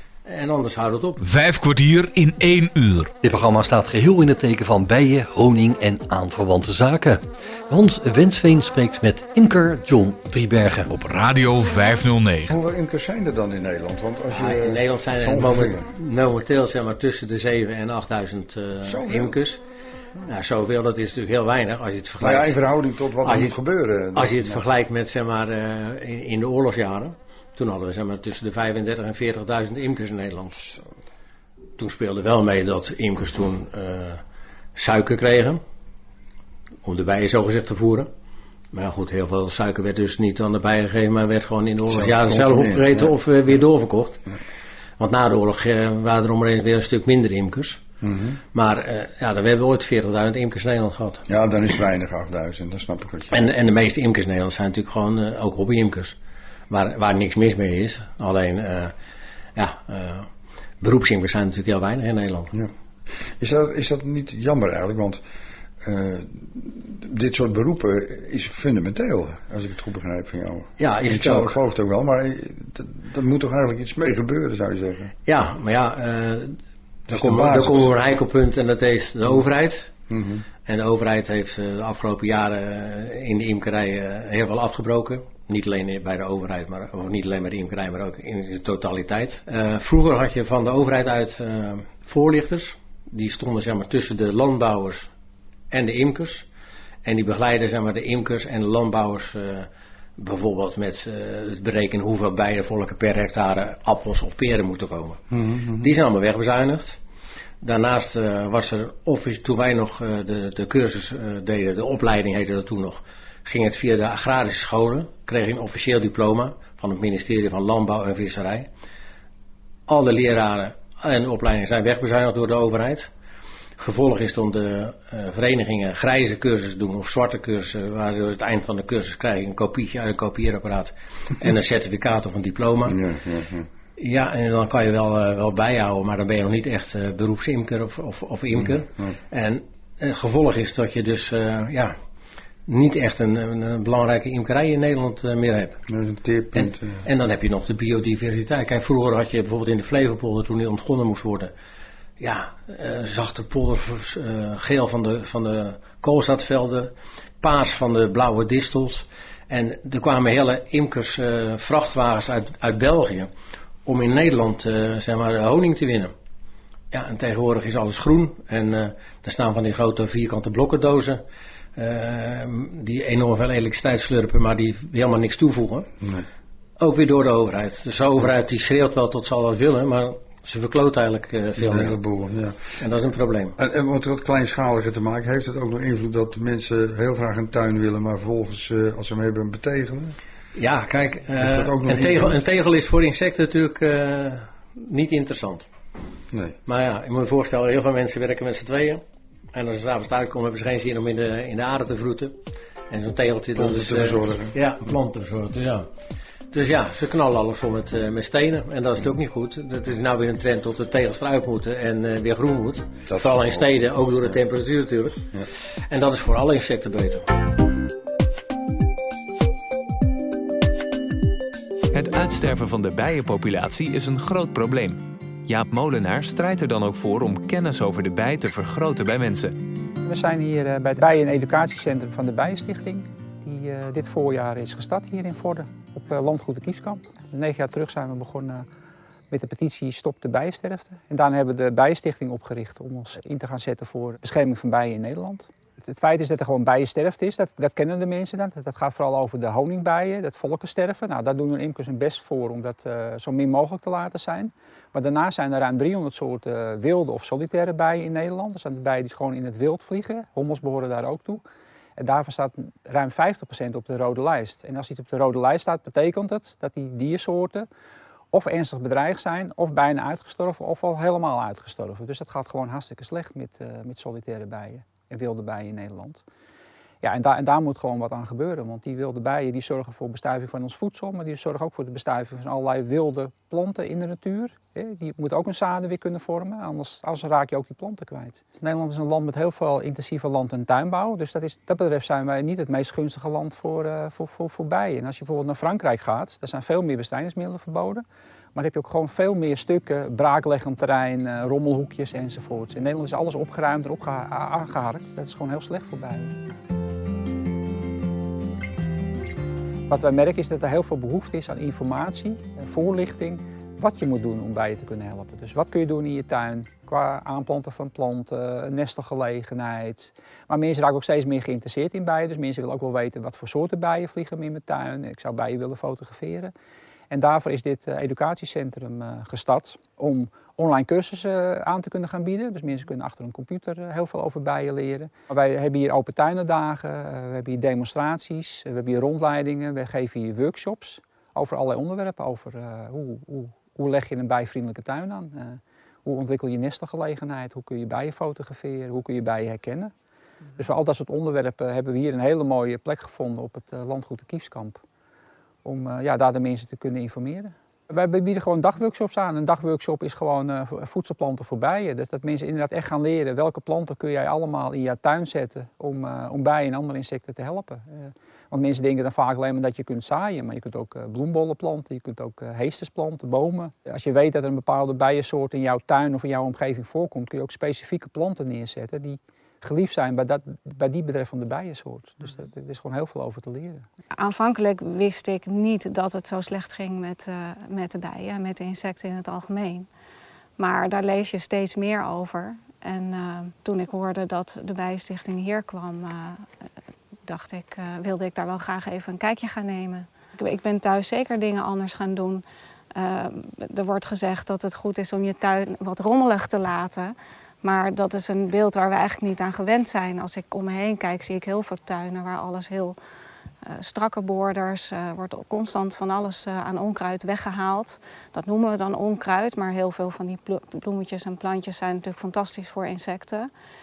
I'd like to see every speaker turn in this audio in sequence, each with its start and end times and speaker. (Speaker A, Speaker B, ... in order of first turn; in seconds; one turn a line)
Speaker A: 0.2-1.2
Speaker B: 1.2-3.1
Speaker C: 3.2-10.9
Speaker B: 10.9-12.6
Speaker D: 12.5-15.9
Speaker A: 14.3-19.6
Speaker D: 18.8-19.4
Speaker A: 20.2-22.6
Speaker D: 22.2-24.6
Speaker A: 23.2-23.6
Speaker A: 24.1-30.7
Speaker A: 31.8-34.2
Speaker A: 34.8-35.6
Speaker A: 36.8-38.1
Speaker A: 38.7-44.2
Speaker D: 41.9-43.2
Speaker A: 45.0-47.8
Speaker D: 48.0-48.4
Speaker A: 48.5-51.2
Speaker D: 51.3-53.5
Speaker A: 53.3-56.1
Speaker A: 56.7-58.9
Speaker A: 59.5-60.3
Speaker A: 60.8-62.5
Speaker D: 63.4-65.2
Speaker D: 65.8-75.1
Speaker A: 70.8-71.6
Speaker A: 75.3-76.6
Speaker D: 77.1-77.9
Speaker A: 77.1-79.9
Speaker D: 80.1-80.4
Speaker A: 80.7-95.1
Speaker A: 95.7-96.5
Speaker A: 97.0-105.2
Speaker D: 105.3-105.9
Speaker A: 105.8-107.0
Speaker A: 107.6-118.7
Speaker A: 119.9-123.1
Speaker A: 123.8-133.0
Speaker D: 132.8-133.7
Speaker A: 134.0-141.9
Speaker D: 138.5-139.2
Speaker A: 142.7-145.8
Speaker D: 145.9-147.0
Speaker A: 146.5-151.5
Speaker A: 152.2-163.3
Speaker A: 163.8-166.1
Speaker A: 166.9-171.2
Speaker A: 171.8-175.9
Speaker D: 176.0-176.2
Speaker A: 176.8-182.0
Speaker D: 181.6-182.6
Speaker A: 182.8-183.6
Speaker D: 183.6-190.1
Speaker A: 190.6-195.7
Speaker D: 191.4-192.4
Speaker A: 196.7-199.0
Speaker A: 199.5-202.3
Speaker A: 202.9-205.9
Speaker D: 203.6-204.5
Speaker A: 206.5-215.2
Speaker D: 213.1-214.4
Speaker A: 215.9-217.2
Speaker E: 221.9-229.5
Speaker F: 230.0-238.6
Speaker F: 239.3-261.4
Speaker F: 262.0-267.7
Speaker F: 268.3-276.2
Speaker F: 277.0-306.4
Speaker F: 309.9-326.5
Speaker F: 327.1-349.9
Speaker F: 350.6-354.8
Speaker F: 355.6-383.8
Speaker G: 384.2-389.9
Speaker G: 390.6-396.4
Speaker G: 397.3-402.4
Speaker G: 402.9-412.9
Speaker G: 413.7-423.5